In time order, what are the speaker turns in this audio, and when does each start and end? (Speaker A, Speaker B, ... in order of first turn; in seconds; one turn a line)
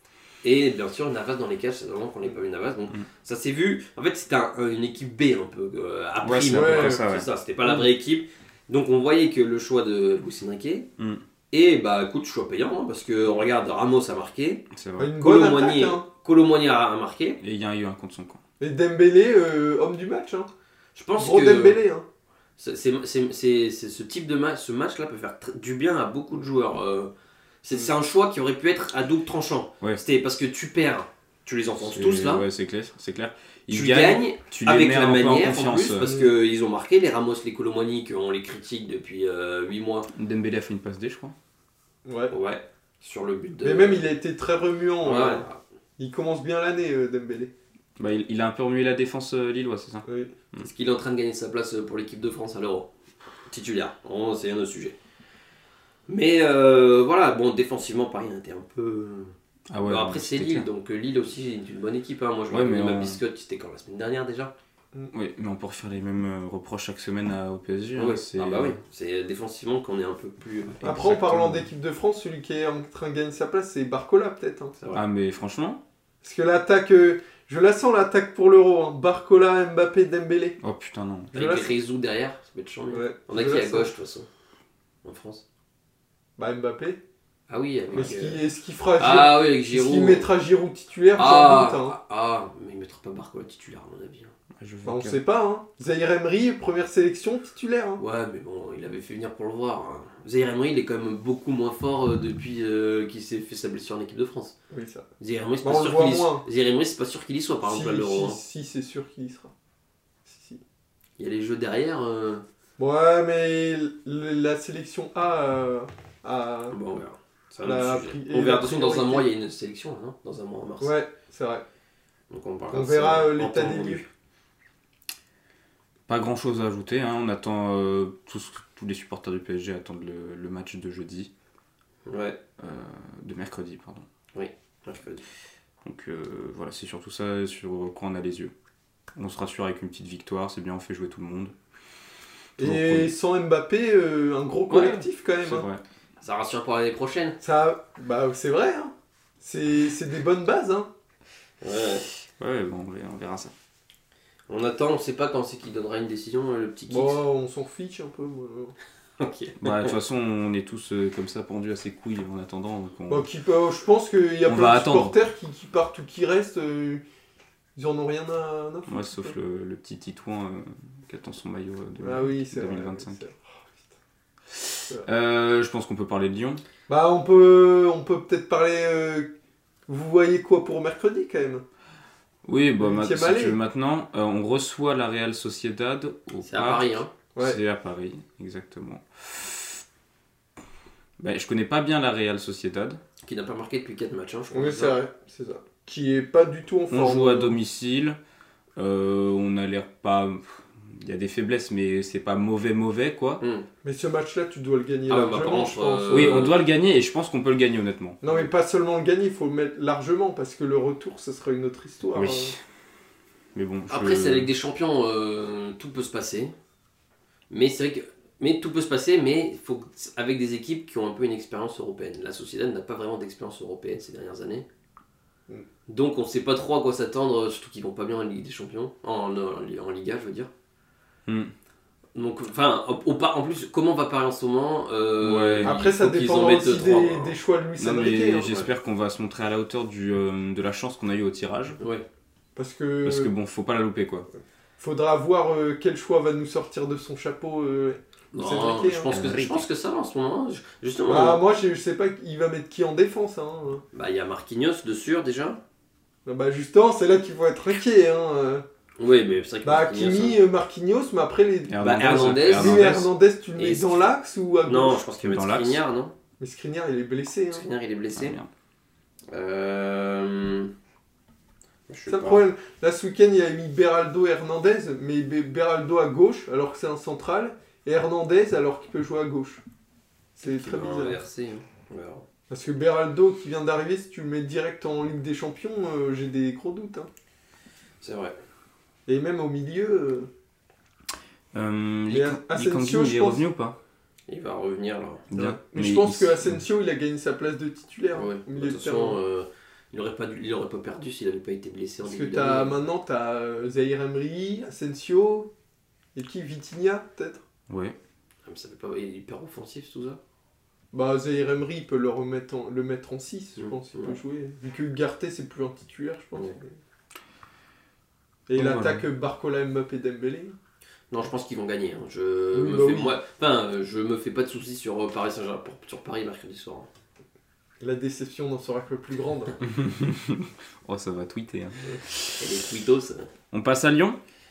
Speaker A: 0.4-10.9
Speaker B: 6.2-7.3
Speaker C: 6.5-7.0
Speaker A: 11.5-14.6
Speaker B: 14.7-15.1
Speaker C: 15.0-16.0
Speaker A: 15.2-17.4
Speaker B: 17.4-18.4
Speaker C: 18.6-20.5
Speaker A: 20.9-21.8
Speaker C: 21.2-22.1
Speaker A: 22.6-27.1
Speaker A: 27.6-32.4
Speaker B: 31.8-36.1
Speaker A: 33.7-40.1
Speaker C: 36.0-36.3
Speaker B: 40.1-41.3
Speaker C: 42.0-42.3
Speaker A: 42.3-44.1
Speaker C: 43.6-45.5
Speaker A: 45.0-45.6
Speaker C: 46.0-47.5
Speaker B: 48.0-50.7
Speaker C: 50.0-50.3
Speaker A: 50.6-52.9
Speaker A: 53.5-54.9
Speaker A: 56.1-64.5
Speaker B: 59.7-60.7
Speaker B: 62.5-63.2
Speaker B: 65.1-68.8
Speaker A: 68.0-71.0
Speaker B: 70.8-71.7
Speaker C: 70.8-74.8
Speaker B: 74.9-75.8
Speaker C: 76.2-80.6
Speaker B: 80.6-81.3
Speaker C: 81.3-81.7
Speaker A: 81.3-84.3
Speaker C: 82.9-83.9
Speaker A: 85.0-85.4
Speaker C: 86.4-87.0
Speaker A: 87.5-88.4
Speaker C: 87.9-92.0
Speaker A: 89.0-90.3
Speaker A: 91.2-94.3
Speaker B: 94.6-95.2
Speaker C: 94.8-98.0
Speaker A: 98.0-104.5
Speaker C: 104.7-105.1
Speaker A: 105.2-108.4
Speaker C: 105.6-106.4
Speaker C: 107.6-109.5
Speaker C: 110.2-110.6
Speaker A: 111.2-112.4
Speaker C: 112.8-116.8
Speaker A: 116.7-121.0
Speaker C: 117.6-119.3
Speaker C: 120.8-121.6
Speaker A: 122.3-124.1
Speaker C: 122.7-124.0
Speaker B: 126.1-131.3
Speaker A: 132.1-132.4
Speaker B: 132.6-134.0
Speaker A: 134.3-135.2
Speaker B: 135.8-138.5
Speaker B: 139.2-141.5
Speaker B: 142.6-143.1
Speaker C: 142.6-145.7
Speaker A: 144.7-145.0
Speaker B: 145.4-145.8
Speaker A: 146.2-147.4
Speaker C: 147.4-150.9
Speaker A: 151.6-152.0
Speaker B: 152.4-153.5
Speaker A: 154.5-157.2
Speaker C: 156.9-158.7
Speaker A: 159.2-159.9
Speaker B: 159.6-163.2
Speaker C: 163.1-167.0
Speaker B: 164.4-165.2
Speaker C: 167.8-169.3
Speaker B: 168.9-173.2
Speaker C: 172.0-173.9
Speaker B: 174.5-176.6
Speaker C: 176.9-179.3
Speaker C: 179.9-181.6
Speaker B: 182.4-189.8
Speaker C: 182.8-183.6
Speaker A: 186.4-187.1
Speaker B: 191.2-193.0
Speaker A: 193.2-195.0
Speaker C: 194.5-197.6
Speaker B: 196.9-198.2
Speaker B: 198.8-203.4
Speaker A: 203.4-203.7
Speaker C: 203.8-206.5
Speaker A: 205.1-206.6
Speaker B: 206.1-208.4
Speaker C: 208.2-212.5
Speaker B: 212.1-212.6
Speaker B: 213.5-214.5
Speaker A: 213.9-216.5
Speaker A: 217.5-224.7
Speaker A: 225.9-230.5
Speaker B: 231.3-231.5
Speaker A: 232.1-237.4
Speaker B: 235.2-235.8
Speaker C: 235.6-238.6
Speaker B: 237.8-241.8
Speaker A: 241.8-242.0
Speaker C: 242.6-243.3
Speaker B: 243.0-244.3
Speaker C: 244.8-249.1
Speaker A: 248.3-251.4
Speaker B: 249.1-249.7
Speaker C: 251.1-253.8
Speaker A: 253.9-255.6
Speaker C: 256.2-258.6
Speaker A: 259.0-260.4
Speaker C: 259.6-265.0
Speaker B: 261.7-263.1
Speaker A: 261.8-263.0
Speaker A: 263.6-264.1
Speaker A: 264.6-266.1
Speaker B: 265.2-265.8
Speaker C: 266.4-267.6
Speaker A: 267.5-268.4
Speaker B: 268.1-268.5
Speaker A: 269.3-270.7
Speaker A: 271.9-272.4
Speaker C: 272.1-279.6
Speaker C: 280.4-281.2
Speaker A: 280.4-282.2
Speaker C: 282.5-287.1
Speaker A: 288.0-288.4
Speaker C: 289.1-290.3
Speaker B: 291.5-293.8
Speaker C: 292.1-293.4
Speaker A: 294.3-295.3
Speaker B: 295.3-296.4
Speaker C: 295.4-299.2
Speaker A: 298.1-302.8
Speaker C: 302.0-305.5
Speaker C: 306.1-307.4
Speaker B: 307.7-307.9
Speaker A: 308.4-310.2
Speaker C: 310.9-316.8
Speaker A: 313.6-314.1
Speaker C: 318.5-320.6
Speaker B: 318.6-319.0
Speaker A: 321.1-326.9
Speaker C: 322.5-323.1
Speaker C: 327.8-329.6
Speaker B: 329.6-332.4
Speaker A: 332.4-333.3
Speaker B: 333.5-334.2